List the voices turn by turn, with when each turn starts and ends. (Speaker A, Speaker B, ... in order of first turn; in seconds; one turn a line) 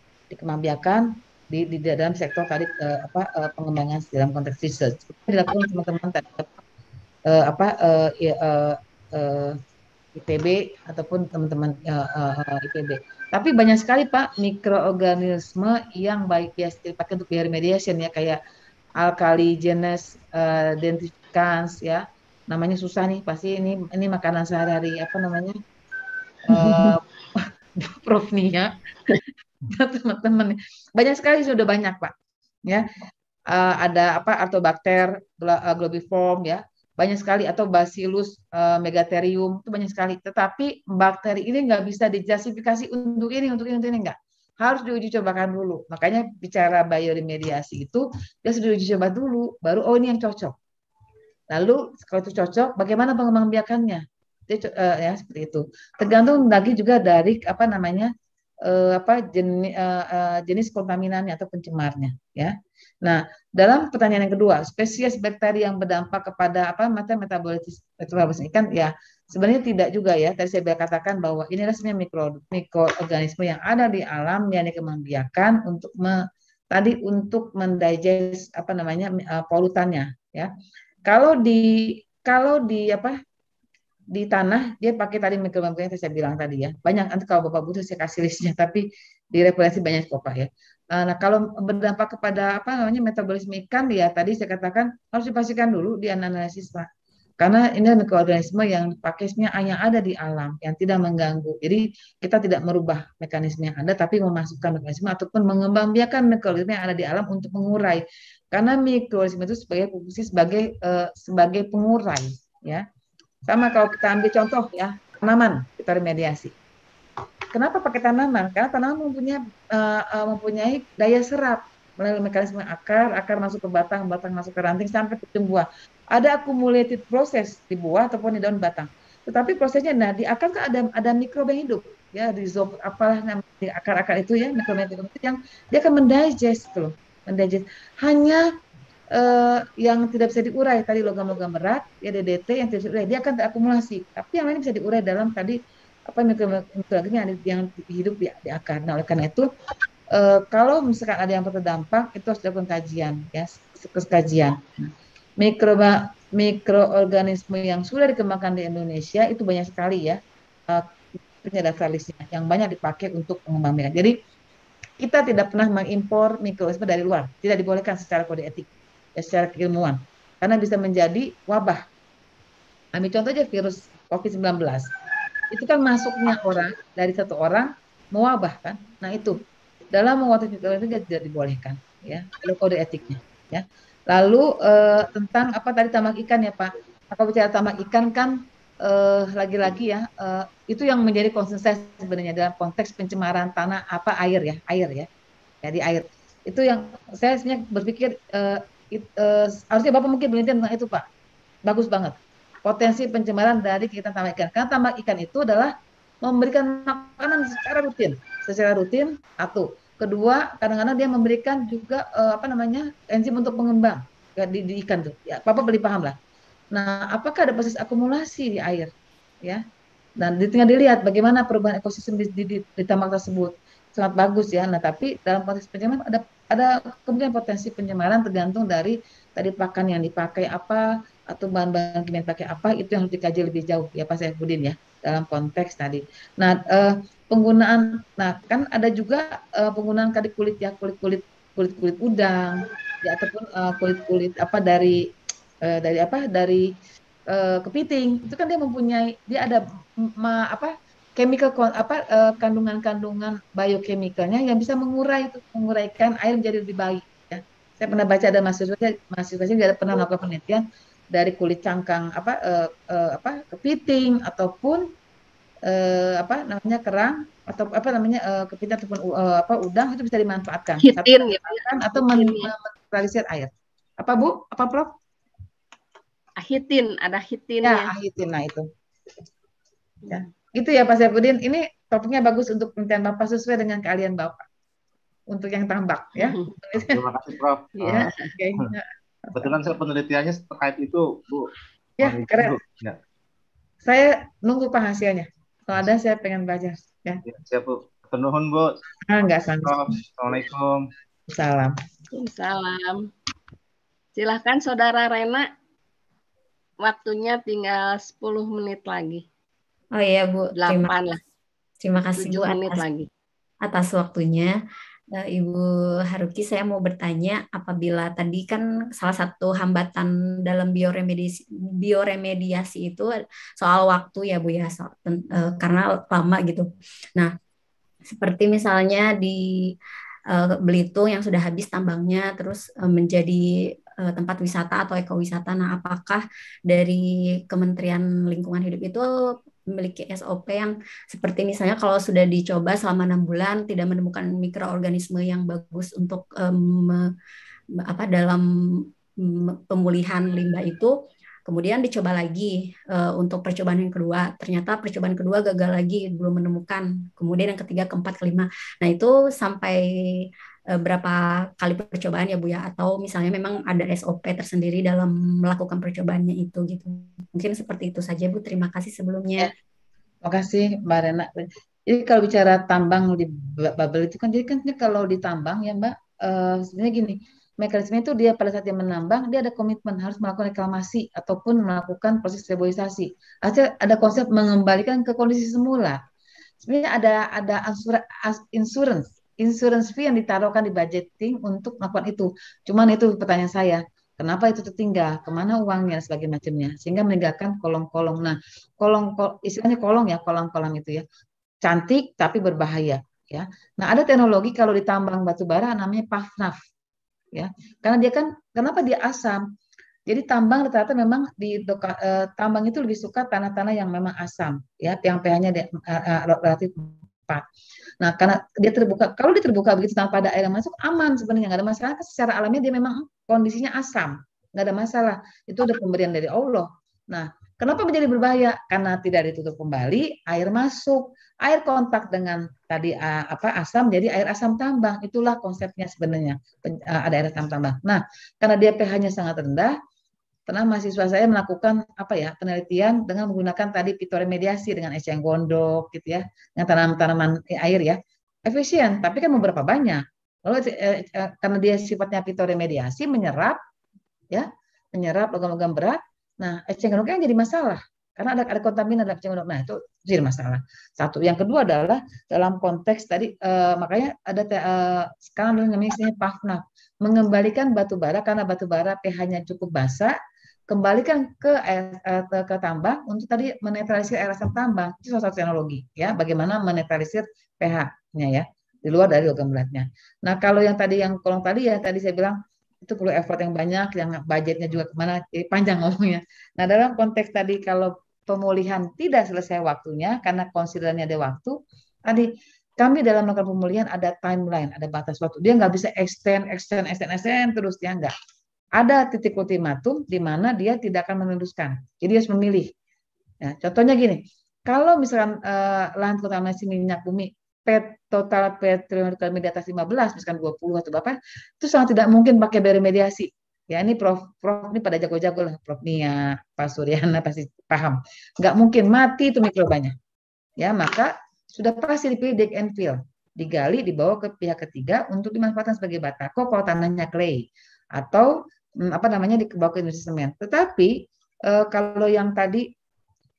Speaker A: 0.3-6.6
Speaker A: 7.3-9.6
Speaker A: 10.2-18.4
Speaker A: 19.0-25.6
Speaker A: 26.5-32.1
Speaker A: 33.5-50.6
Speaker A: 51.5-58.1
Speaker A: 58.6-80.5
Speaker A: 81.1-83.2
Speaker A: 84.1-96.9
Speaker A: 97.4-112.8
Speaker A: 113.5-116.5
Speaker A: 117.5-138.5
Speaker A: 139.1-149.5
Speaker A: 150.1-164.2
Speaker A: 165.0-171.8
Speaker A: 172.9-174.9
Speaker A: 175.5-179.4
Speaker A: 179.9-195.1
Speaker A: 195.6-201.1
Speaker A: 201.7-216.2
Speaker A: 216.7-218.9
Speaker A: 220.2-245.0
Speaker A: 245.6-246.7
Speaker A: 247.3-264.9
Speaker A: 265.7-274.9
Speaker B: 270.8-272.5
Speaker B: 276.4-277.9
Speaker A: 277.6-278.7
Speaker A: 280.1-284.5
Speaker A: 285.3-287.0
Speaker B: 286.2-286.5
Speaker C: 286.8-288.7
Speaker B: 287.8-288.3
Speaker A: 287.8-289.6
Speaker C: 289.4-293.0
Speaker A: 292.0-292.6
Speaker A: 293.9-297.2
Speaker C: 297.3-298.7
Speaker A: 299.1-300.0
Speaker C: 299.6-300.8
Speaker A: 301.3-301.8
Speaker B: 302.1-303.1
Speaker B: 304.2-305.5
Speaker B: 306.8-309.2
Speaker D: 309.9-310.9
Speaker B: 310.6-311.2
Speaker D: 311.8-312.8
Speaker B: 312.2-313.1
Speaker D: 313.6-314.5
Speaker D: 315.1-327.3
Speaker D: 328.1-329.8
Speaker D: 330.3-333.4
Speaker D: 334.0-347.1
Speaker D: 347.8-350.9
Speaker D: 351.5-369.5
Speaker A: 370.2-386.0
Speaker A: 386.6-401.0
Speaker A: 401.6-406.6
Speaker A: 407.4-409.5
Speaker A: 410.1-417.4
Speaker A: 418.0-439.8
Speaker A: 440.5-453.6
Speaker A: 454.3-470.2
Speaker A: 470.7-498.1
Speaker A: 498.8-502.7
Speaker A: 503.4-520.0
Speaker A: 520.6-532.7